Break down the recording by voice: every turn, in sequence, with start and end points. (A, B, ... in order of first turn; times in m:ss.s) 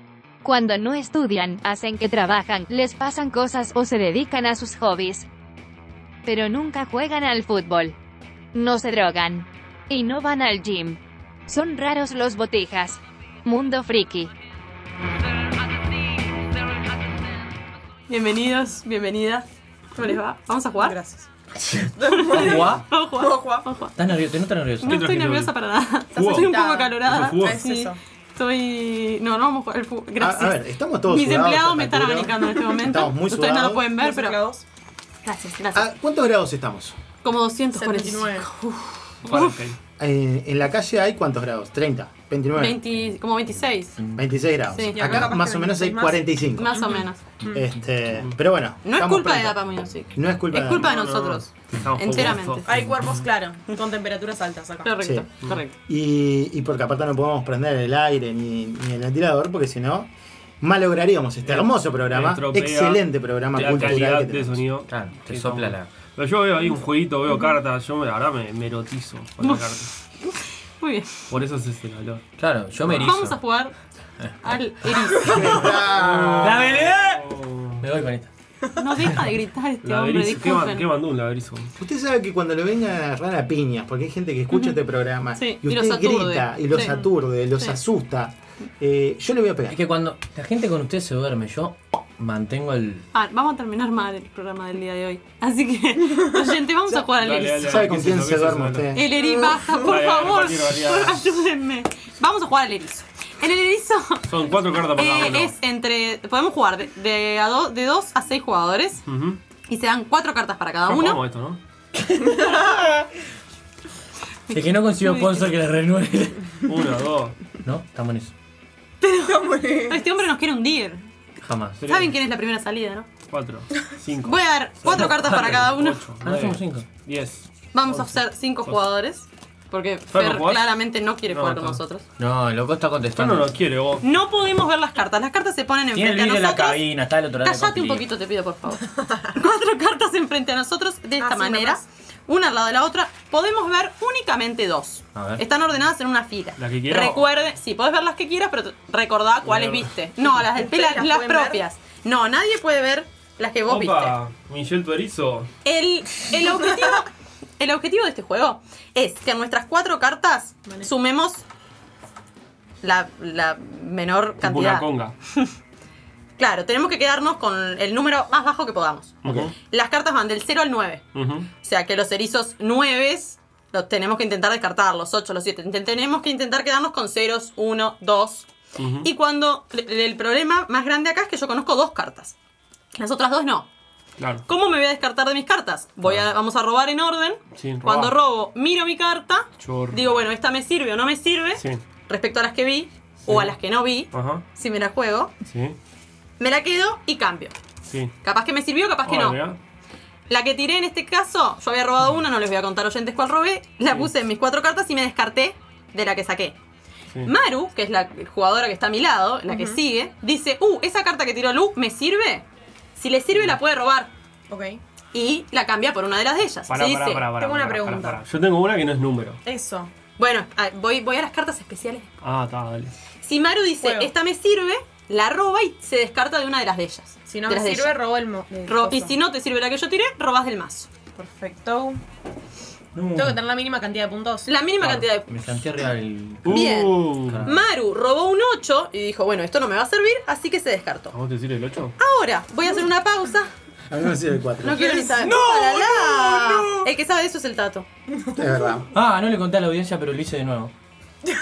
0:00.4-0:05.3 A
0:06.2-0:08.0 A
0:08.5-0:14.3 A
0:18.1-0:21.0 B
0:20.8-0:21.2 C
0:21.6-0:22.8 D
0:22.0-0:23.5 C
0:22.1-0:24.0 B
0:24.0-0:25.0 D
0:24.8-0:34.4 B
0:24.8-0:25.5 E
0:26.1-0:27.7 E
0:26.2-0:28.0 C
0:30.2-0:33.9 F
0:34.0-0:34.6 C
0:35.2-0:35.9 B
0:35.7-0:37.0 F
0:37.2-0:39.6 B
0:37.8-0:38.4 C
0:39.2-0:39.8 E
0:40.0-0:42.8 F
0:42.5-0:44.0 B
0:44.2-0:46.8 F
0:44.7-0:45.4 B
0:44.9-0:46.2 C
0:46.5-0:47.2 B
0:47.4-0:50.9 F
0:48.8-0:52.7 B
0:50.7-0:53.3 E
0:52.6-0:54.9 C
0:54.8-0:55.8 B
0:55.0-0:55.3 F
0:55.9-1:04.6 F
1:01.4-1:09.9 E
1:04.9-1:05.9 D
1:09.4-1:11.2 B
1:11.3-1:12.2 E
1:12.4-1:13.4 D
1:12.9-1:13.8 B
1:14.4-1:15.8 B
1:15.2-1:16.7 F
1:15.4-1:17.9 E
1:16.4-1:18.3 D
1:18.7-1:20.9 B
1:19.8-1:21.7 E
1:21.8-1:29.8 F
1:25.3-1:27.8 B
1:29.7-1:33.0 D
1:33.1-1:38.0 B
1:36.9-1:39.1 E
1:37.6-1:39.1 F
1:38.9-1:44.3 B
1:39.7-1:41.3 E
1:44.2-1:45.6 E
1:44.9-1:49.0 B
1:49.0-1:49.4 E
1:49.7-1:51.2 B
1:50.8-1:51.6 E
1:52.1-1:52.8 D
1:54.5-1:55.5 B
1:54.5-1:56.5 D
1:56.6-1:57.4 E
1:57.6-1:58.3 D
1:59.0-2:01.0 B
1:59.2-2:00.0 C
2:01.4-2:01.8 D
2:01.8-2:02.2 E
2:01.8-2:03.1 B
2:03.3-2:08.8 E
2:04.2-2:06.0 B
2:06.2-2:06.9 D
2:07.7-2:12.1 B
2:10.1-2:11.8 E
2:12.2-2:13.6 D
2:13.2-2:14.1 E
2:14.0-2:34.2 B
2:15.9-2:18.1 D
2:21.2-2:21.8 C
2:25.2-2:25.4 D
2:26.6-2:27.3 E
2:29.4-2:29.9 E
2:30.5-2:31.6 C
2:33.7-2:35.5 E
2:35.6-2:41.4 B
2:42.8-2:45.5 B
2:44.4-2:45.2 E
2:46.4-2:58.5 B
2:49.2-2:49.5 E
2:51.1-2:51.5 E
2:58.8-2:59.1 E
2:59.0-3:02.4 B
3:02.9-3:03.7 B
3:04.2-3:04.4 E
3:04.5-3:15.3 B
3:07.6-3:08.1 E
3:09.6-3:10.1 E
3:11.6-3:11.8 E
3:13.3-3:13.6 E
3:14.1-3:14.4 E
3:15.5-3:15.8 E
3:16.4-3:17.6 B
3:17.9-3:18.1 E
3:18.2-3:19.4 B
3:19.0-3:19.6 E
3:20.3-3:26.6 B
3:23.9-3:24.1 E
3:27.2-3:34.1 B
3:29.5-3:29.8 C
3:33.3-3:33.6 E
3:34.5-3:34.8 C
3:35.1-3:37.3 B
3:36.7-3:39.4 E
3:37.4-3:38.2 C
3:39.5-3:39.9 C
3:40.2-3:42.1 B
3:42.2-3:43.0 E
3:43.2-3:48.1 B
3:43.8-3:44.1 C
3:47.3-3:49.1 C
3:48.7-3:50.9 B
3:51.2-3:52.0 C
3:52.9-3:53.4 D
3:53.2-3:54.5 C
3:54.4-3:55.3 B
3:54.8-3:57.6 D
3:56.4-3:57.5 E
3:56.5-4:01.2 B
4:01.1-4:02.0 E
4:02.0-4:03.5 B
4:03.9-4:04.9 F
4:04.6-4:07.9 B
4:04.8-4:05.3 C
4:05.2-4:06.8 D
4:08.3-4:08.9 F
4:08.9-4:10.7 D